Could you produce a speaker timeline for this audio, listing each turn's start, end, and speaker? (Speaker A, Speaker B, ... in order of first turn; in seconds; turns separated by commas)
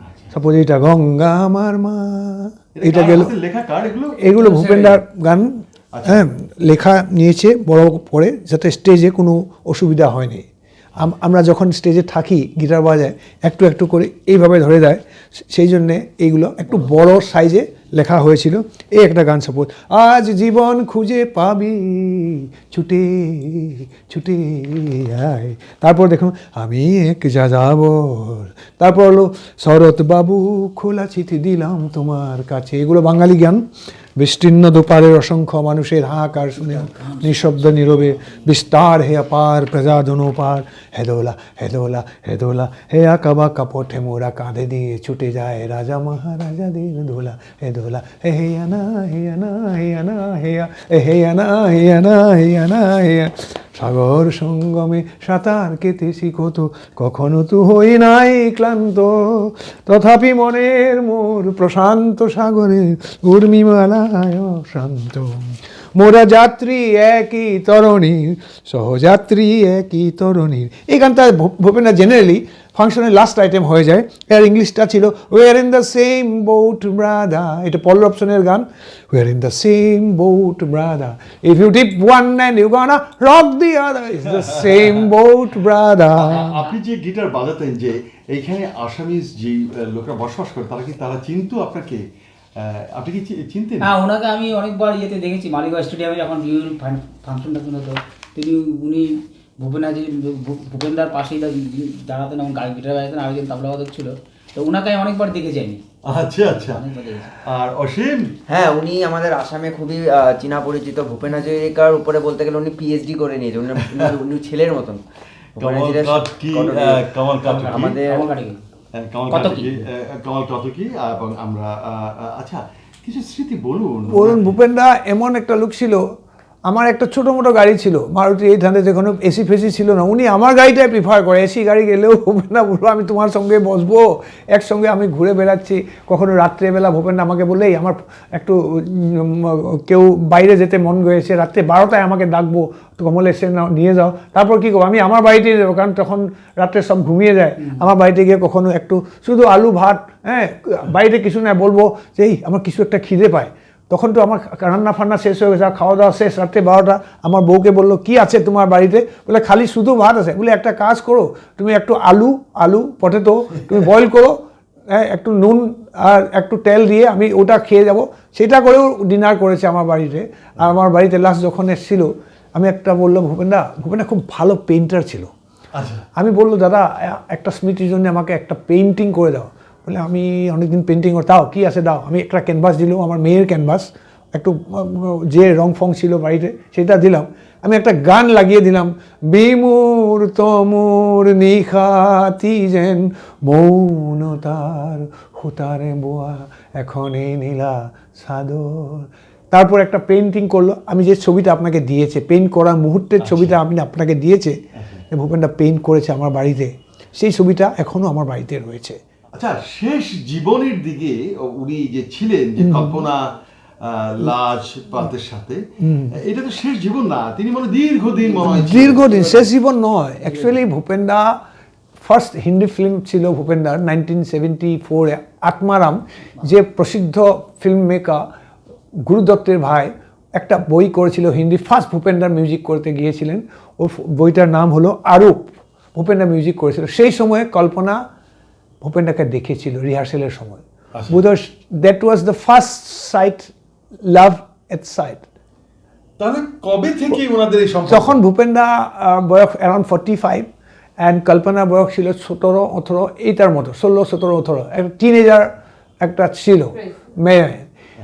Speaker A: 0.3-3.3, Speaker B: 2.8-5.0, Speaker A: 4.2-5.5, Speaker B: 5.9-6.3, Speaker A: 6.0-10.4, Speaker A: 11.0-33.6, Speaker A: 34.2-86.5, Speaker B: 86.2-92.0, Speaker C: 86.4-86.7, Speaker B: 92.6-93.9, Speaker C: 93.8-105.8, Speaker B: 106.0-106.8, Speaker C: 106.4-107.3, Speaker B: 107.5-108.3, Speaker D: 108.5-115.0, Speaker D: 115.6-117.1, Speaker B: 115.6-118.0, Speaker C: 117.4-118.6, Speaker D: 117.7-118.3, Speaker B: 118.9-124.5, Speaker C: 119.3-119.7, Speaker A: 124.1-126.0, Speaker A: 126.7-164.4, Speaker A: 164.9-175.3, Speaker B: 175.8-176.0, Speaker A: 176.2-204.6, Speaker B: 203.2-203.6, Speaker A: 205.1-209.0, Speaker B: 209.3-219.1, Speaker A: 212.6-213.0, Speaker A: 215.8-216.1, Speaker A: 218.4-221.4, Speaker C: 219.1-219.4, Speaker A: 222.0-228.2, Speaker A: 229.0-238.0, Speaker A: 238.8-243.5, Speaker A: 244.0-245.2, Speaker B: 246.2-248.2, Speaker A: 247.9-250.5, Speaker A: 251.0-257.6